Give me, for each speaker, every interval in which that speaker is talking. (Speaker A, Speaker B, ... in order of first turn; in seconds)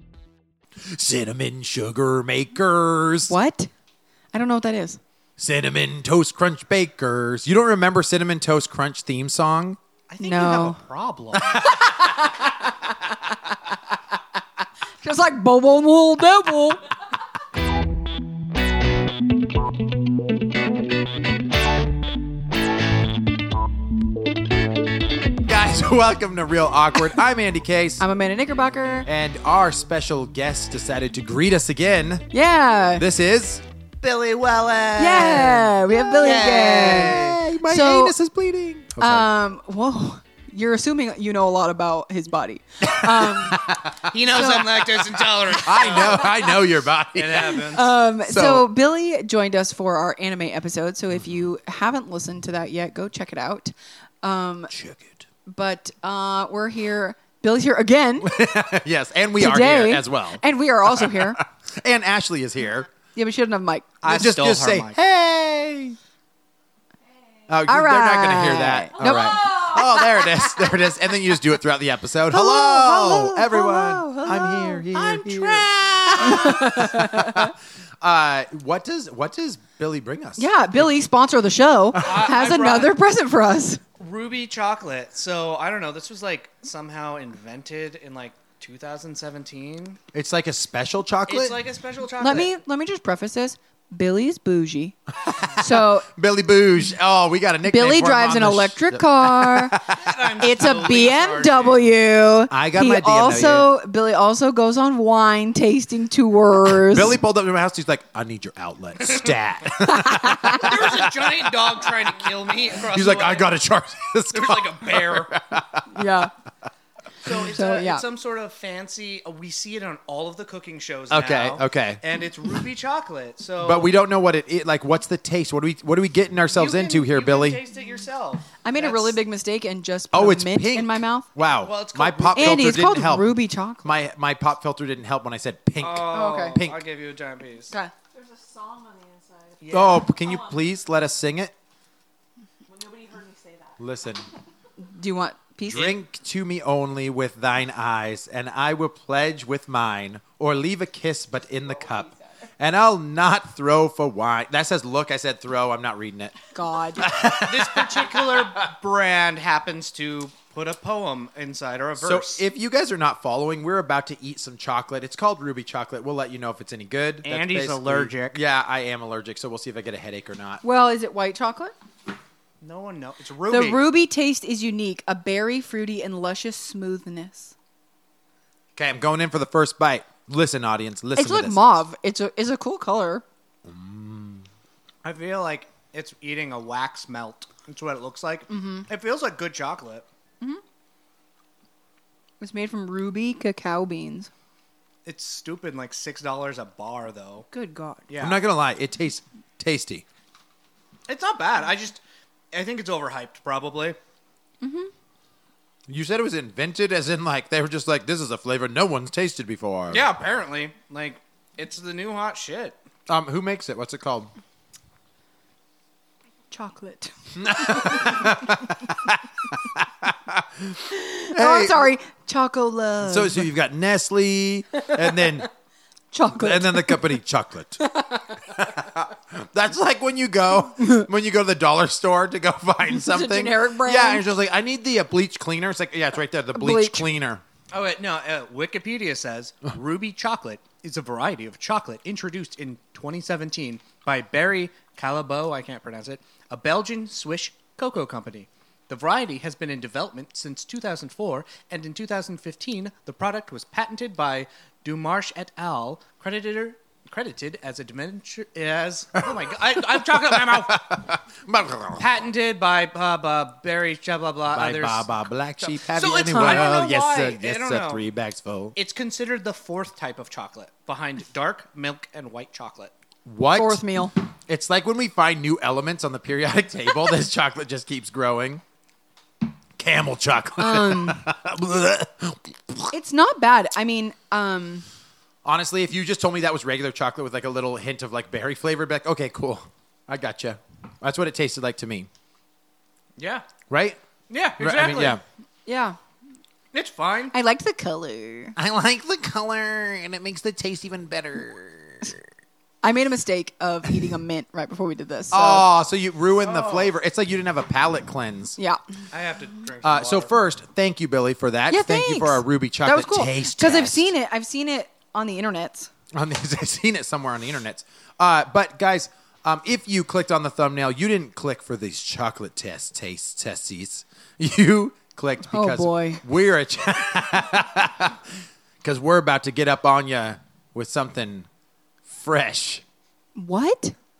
Speaker A: 0.8-3.3, 5.4-9.8, 11.3-12.3, 25.3-28.0, 29.1-32.3, 33.0-39.3, 42.8-48.7, 54.7-55.2, 58.2-62.9, 64.0-66.0, 67.5-80.8, 90.1-91.6, 95.3-100.3, 102.5-103.7, 106.6-116.0, 121.1-122.0, 123.6-127.6, 130.1-136.8, 139.7-141.5, 143.8-144.3, 145.7-156.4, 157.0-158.7, 162.0-170.6, 178.8-181.7, 183.7-184.4, 198.2-200.1, 205.9-210.1, 213.1-214.3, 217.3-221.9, 223.0-225.5, 226.3-227.8, 228.4-237.4, 259.2-262.1, 264.5-268.8, 273.3-273.8, 274.5-278.6, 279.8-282.9, 285.4-292.1, 293.7-294.0, 294.6-295.2, 298.6-302.2, 305.3-308.6, 309.8-314.1, 316.1-328.2, 328.8-331.5, 332.1-332.8
Speaker B: 3.3-3.7, 4.3-5.0, 10.2-10.8, 11.6-12.7, 15.0-16.8, 28.0-29.1, 32.3-33.0, 35.0-38.2, 39.0-43.6, 44.3-44.7, 47.6-54.7, 55.5-58.3, 59.4-61.4, 63.1-63.9, 67.7-69.8, 72.3-75.4, 76.2-77.5, 80.4-83.8, 92.2-96.1, 97.7-99.8, 100.4-107.2, 109.8-110.7, 115.9-116.3, 117.3-118.0, 128.6-131.3, 132.3-133.9, 136.1-136.6, 144.9-145.9, 156.5-157.1, 170.6-171.7, 173.5-177.5, 181.2-183.2, 188.5-188.9, 192.4-194.3, 197.5-198.0, 204.6-204.9, 216.5-218.6, 220.9-223.5, 224.9-225.3, 226.1-227.1, 227.8-228.3, 232.9-234.3, 236.6-237.1, 266.3-266.9, 273.6-274.1, 280.6-281.2, 282.9-284.9, 295.7-296.0, 297.3-298.6, 302.8-305.7, 311.7-315.9, 325.5-326.2, 333.4-333.9
Speaker C: 10.1-11.5, 34.7-35.3, 36.4-37.0, 44.1-46.6, 47.1-47.9, 64.0-65.0, 74.9-76.1, 82.0-83.0, 84.0-90.0, 91.3-92.5, 99.9-101.9, 110.5-113.6, 114.3-115.4, 117.2-123.9, 126.5-129.2, 131.6-132.8, 135.8-137.7, 139.6-140.1, 157.3-162.4, 167.2-168.4, 172.6-173.8, 185.0-190.1, 195.1-197.5, 198.1-198.4, 201.1-202.0, 202.5-204.0, 209.9-212.8, 237.7-260.9, 262.0-265.1, 265.6-268.0, 268.8-272.9, 293.2-293.5, 294.3-295.2, 296.7-297.4, 306.4-306.9, 309.1-310.3
Speaker D: 69.1-69.7, 138.1-140.6, 142.7-143.8